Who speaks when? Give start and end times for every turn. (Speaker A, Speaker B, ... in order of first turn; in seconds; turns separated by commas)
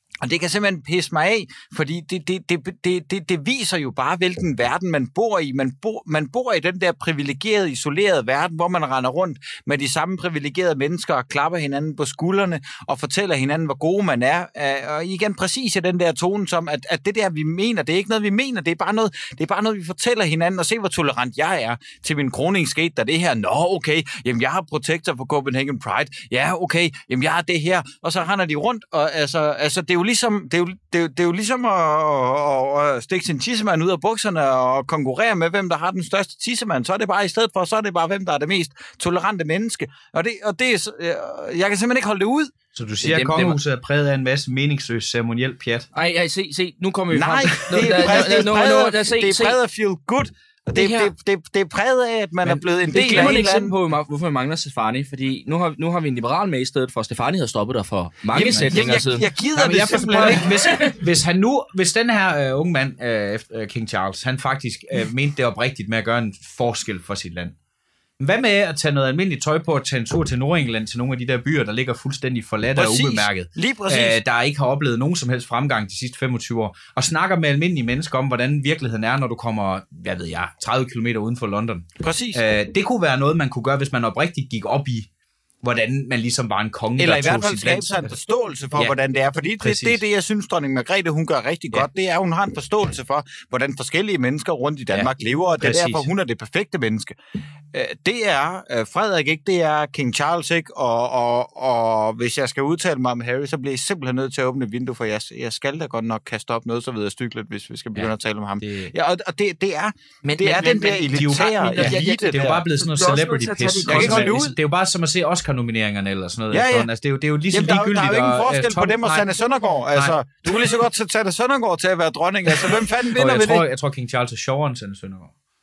Speaker A: 0.2-42.5, Speaker B: 42.7-45.9, Speaker C: 43.0-43.6, Speaker C: 45.9-49.6, Speaker A: 47.1-53.8, Speaker C: 50.7-51.1, Speaker C: 52.5-59.3, Speaker A: 58.3-60.7, Speaker B: 58.5-59.0, Speaker B: 59.5-67.5, Speaker C: 60.5-61.0, Speaker B: 68.2-85.1, Speaker A: 72.8-74.2, Speaker A: 82.0-82.4, Speaker B: 85.6-88.1, Speaker A: 87.0-97.1, Speaker B: 89.6-90.0, Speaker B: 94.9-96.1, Speaker A: 97.7-112.6, Speaker B: 108.0-108.9, Speaker C: 110.2-114.5, Speaker B: 111.1-119.3, Speaker A: 113.8-114.5, Speaker A: 116.5-116.9, Speaker A: 117.5-123.7, Speaker B: 119.9-120.2, Speaker B: 123.1-125.3